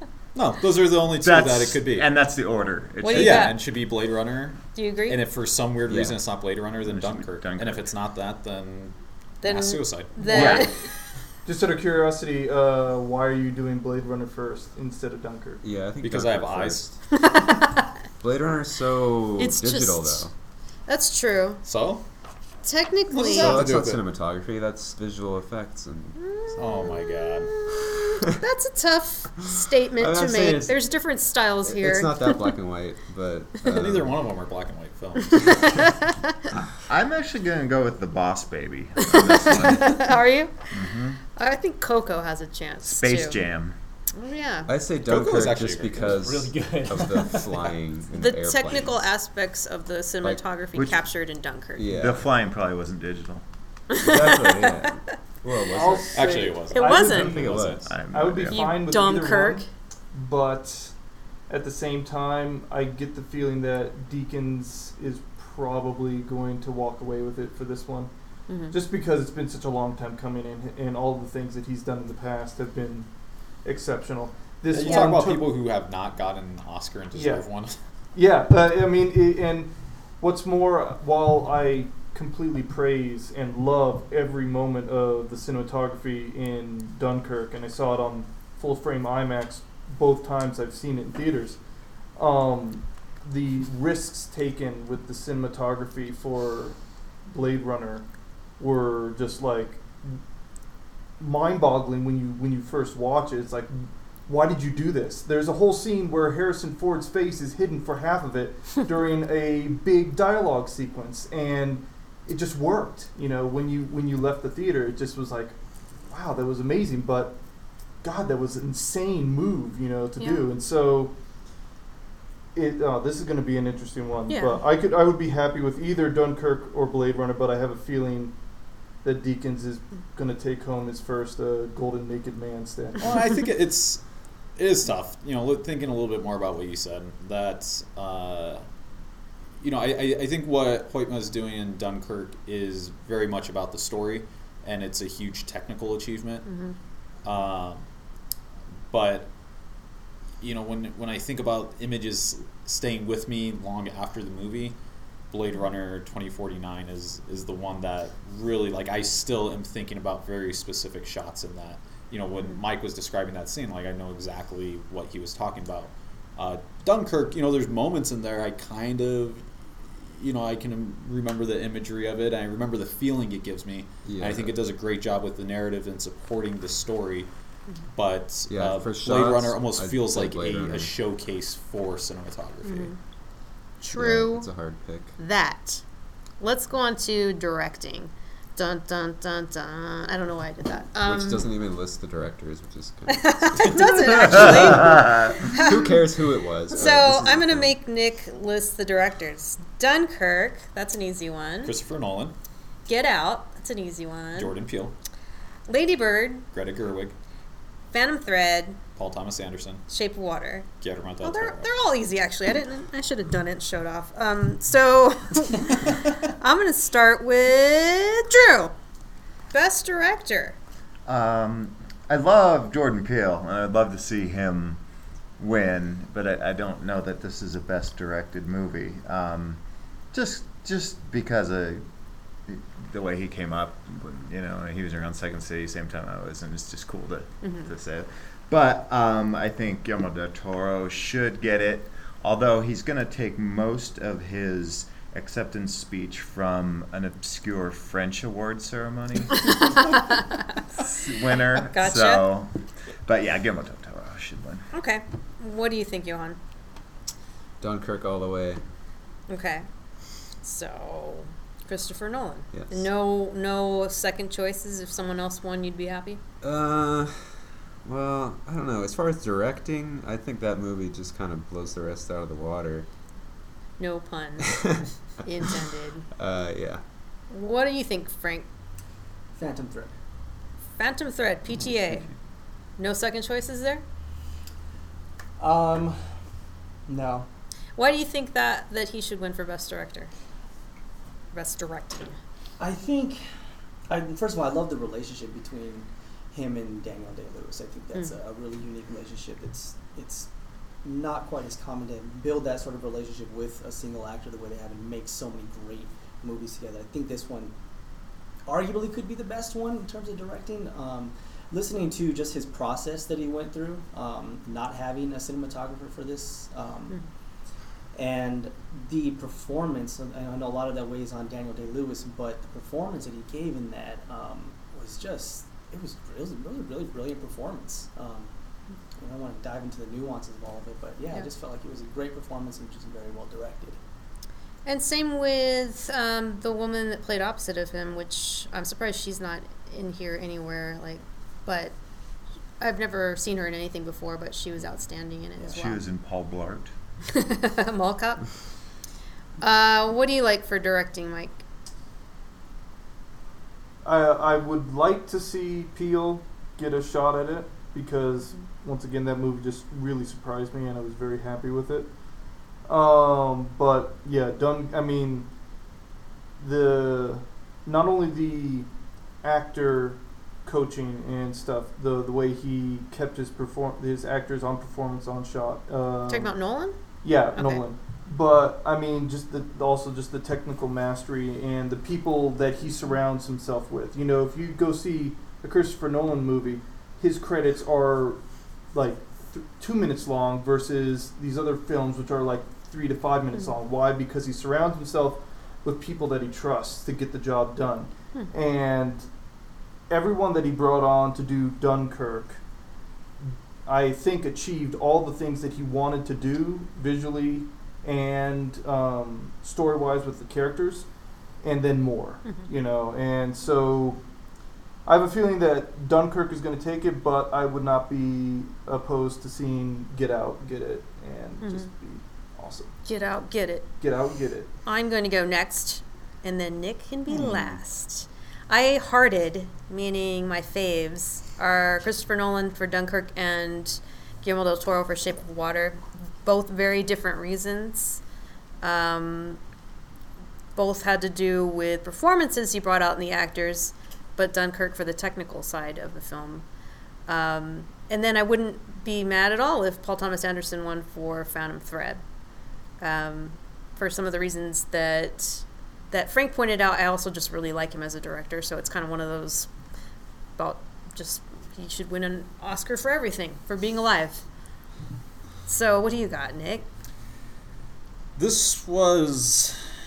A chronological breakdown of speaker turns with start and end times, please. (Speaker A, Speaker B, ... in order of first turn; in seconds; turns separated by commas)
Speaker A: 0.3-2.1, Speaker B: 1.2-3.5, Speaker C: 3.0-3.5, Speaker A: 3.1-10.7, Speaker C: 4.7-5.2, Speaker D: 5.9-6.2, Speaker B: 6.8-7.9, Speaker C: 9.4-10.7, Speaker E: 10.2-10.7, Speaker B: 10.3-10.6, Speaker E: 11.4-15.6, Speaker D: 15.6-16.9, Speaker A: 16.0-17.0, Speaker C: 17.1-17.9, Speaker D: 18.2-20.3, Speaker C: 19.4-20.2, Speaker C: 20.9-21.6, Speaker A: 21.6-22.0, Speaker C: 22.6-23.6, Speaker A: 23.1-24.0, Speaker D: 23.3-26.2, Speaker C: 26.2-32.5, Speaker A: 26.5-27.5, Speaker D: 27.8-28.2, Speaker D: 30.0-30.8, Speaker D: 31.6-34.2, Speaker A: 33.7-35.9, Speaker C: 35.4-36.3, Speaker B: 36.9-40.1, Speaker C: 39.0-40.7, Speaker B: 40.7-41.2, Speaker C: 41.3-43.4, Speaker B: 42.8-43.7, Speaker C: 44.1-44.7, Speaker D: 44.7-49.1, Speaker A: 45.0-46.2, Speaker F: 46.0-47.7, Speaker C: 48.1-51.8, Speaker B: 50.7-51.0, Speaker D: 51.7-52.3, Speaker B: 51.9-53.4, Speaker C: 53.9-55.0, Speaker D: 54.0-56.5, Speaker E: 55.6-60.9, Speaker A: 56.1-57.9, Speaker C: 56.7-57.4, Speaker D: 57.1-58.0, Speaker B: 57.8-58.6, Speaker C: 58.5-59.7, Speaker E: 61.5-68.1, Speaker C: 68.5-68.8, Speaker E: 68.7-73.1, Speaker E: 73.6-75.5, Speaker A: 74.7-77.8, Speaker C: 74.8-75.1, Speaker E: 77.1-77.4, Speaker E: 78.1-91.6, Speaker E: 92.2-98.0, Speaker E: 98.6-100.2, Speaker E: 101.2-115.5, Speaker E: 116.1-117.4, Speaker E: 118.0-121.1, Speaker C: 120.2-120.4, Speaker E: 122.5-128.3, Speaker C: 124.3-124.6, Speaker E: 129.0-133.1, Speaker A: 133.0-134.0, Speaker A: 134.6-138.6, Speaker A: 139.6-146.4, Speaker C: 146.4-146.8, Speaker A: 147.2-147.8, Speaker A: 148.9-149.3, Speaker A: 150.4-154.8, Speaker A: 155.3-169.4, Speaker A: 170.0-177.3, Speaker D: 174.1-174.5, Speaker A: 177.9-182.9, Speaker D: 178.5-180.9, Speaker C: 182.6-183.0, Speaker C: 183.8-184.5, Speaker D: 183.9-185.2, Speaker C: 185.2-185.8, Speaker C: 186.4-191.5, Speaker D: 191.0-197.7, Speaker C: 193.1-196.0, Speaker B: 194.3-195.5, Speaker C: 196.7-201.7, Speaker A: 201.6-202.3, Speaker C: 202.9-204.5, Speaker A: 204.3-204.9, Speaker C: 205.7-206.4, Speaker A: 206.5-207.1, Speaker C: 207.9-208.8, Speaker A: 208.9-209.8, Speaker C: 209.9-210.7, Speaker A: 210.8-211.7, Speaker C: 211.2-218.7, Speaker C: 219.5-220.6, Speaker B: 221.1-224.8, Speaker B: 225.4-229.6, Speaker B: 230.1-231.8, Speaker B: 232.4-249.8, Speaker C: 237.4-237.7, Speaker C: 249.5-250.4, Speaker B: 250.8-254.7, Speaker C: 251.6-252.2, Speaker C: 254.7-256.4, Speaker D: 257.6-258.6, Speaker C: 259.3-259.6, Speaker C: 260.4-266.2, Speaker D: 262.5-262.8, Speaker D: 266.4-272.9, Speaker C: 273.8-274.5, Speaker D: 274.6-274.9, Speaker C: 275.2-276.0, Speaker D: 276.1-276.8, Speaker C: 277.3-278.5, Speaker F: 279.3-279.9, Speaker C: 280.8-282.1, Speaker C: 282.8-283.8, Speaker F: 285.4-286.0, Speaker F: 286.9-287.3, Speaker C: 287.8-290.1, Speaker C: 291.3-292.2, Speaker F: 292.6-293.2, Speaker F: 293.9-300.3, Speaker F: 300.8-307.5, Speaker F: 308.4-317.0, Speaker F: 317.9-328.3, Speaker F: 329.0-333.8, Speaker C: 334.6-341.7, Speaker C: 342.6-345.8, Speaker B: 345.4-346.7, Speaker C: 347.1-348.2, Speaker C: 349.4-351.4, Speaker E: 353.8-361.9, Speaker E: 362.7-365.3, Speaker E: 366.4-368.7, Speaker E: 369.2-376.3, Speaker C: 376.1-376.8, Speaker E: 377.0-388.2, Speaker C: 377.3-377.6, Speaker E: 388.7-399.1, Speaker E: 399.9-402.4, Speaker E: 403.2-410.9, Speaker E: 411.4-414.0, Speaker E: 414.8-422.7, Speaker C: 421.4-421.7, Speaker C: 422.8-423.7, Speaker E: 423.8-424.5, Speaker C: 424.6-438.0, Speaker E: 427.2-427.5, Speaker C: 438.6-439.4, Speaker C: 440.6-446.4, Speaker C: 447.1-452.0, Speaker C: 452.8-459.5, Speaker C: 460.4-464.2, Speaker C: 465.5-466.7, Speaker A: 468.1-469.6